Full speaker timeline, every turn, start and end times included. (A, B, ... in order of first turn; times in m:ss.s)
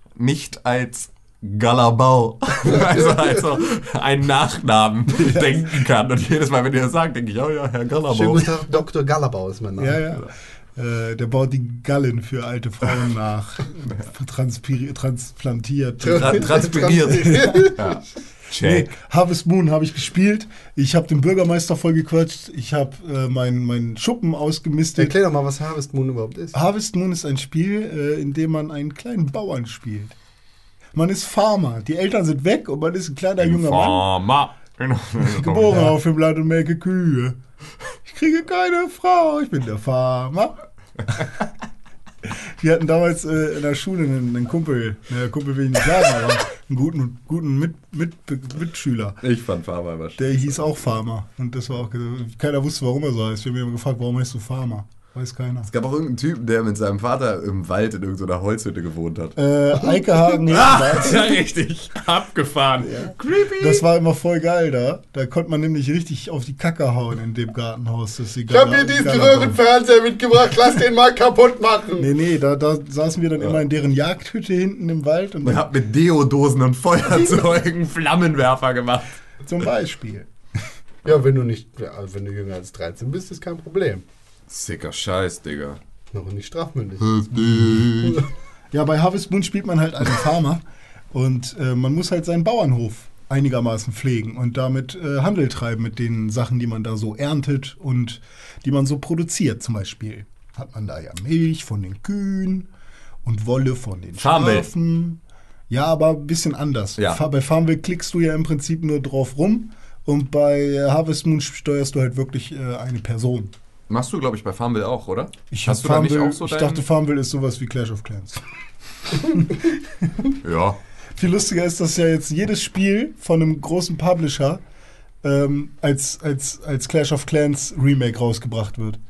0:00.2-0:08.6 A
0:02.7-0:03.3 B
0:05.1-0:05.7 C
0:08.1-0:10.2 B
0:09.8-0:17.7 C
0:16.0-0:18.0 B
0:16.1-0:18.9 A
0:18.6-0:25.2 C
0:25.0-0:26.6 B
0:26.5-0:30.2 C
0:30.9-0:34.0 C
0:33.4-0:35.9 A
0:35.2-0:37.4 C
0:38.0-0:40.6 C
0:42.2-0:49.2 C
0:49.2-0:50.3 A
0:50.2-0:55.7 C
0:55.7-0:59.4 A
0:59.4-1:01.4 C
1:00.5-1:03.8 A
1:02.8-1:09.6 C
1:08.5-1:12.1 B
1:12.0-1:15.7 C
1:15.4-1:19.1 A
1:19.4-1:20.3 C
1:21.0-1:24.0 B
1:24.5-1:25.8 A
1:26.1-1:27.2 B
1:27.1-1:28.2 A
1:28.7-1:42.7 C
1:43.2-1:53.5 C
1:44.2-1:44.7 A
1:53.9-1:56.8 A
1:55.5-1:58.4 C
1:59.1-2:00.3 C
2:00.4-2:00.8 A
2:01.2-2:04.6 C
2:05.2-2:09.0 C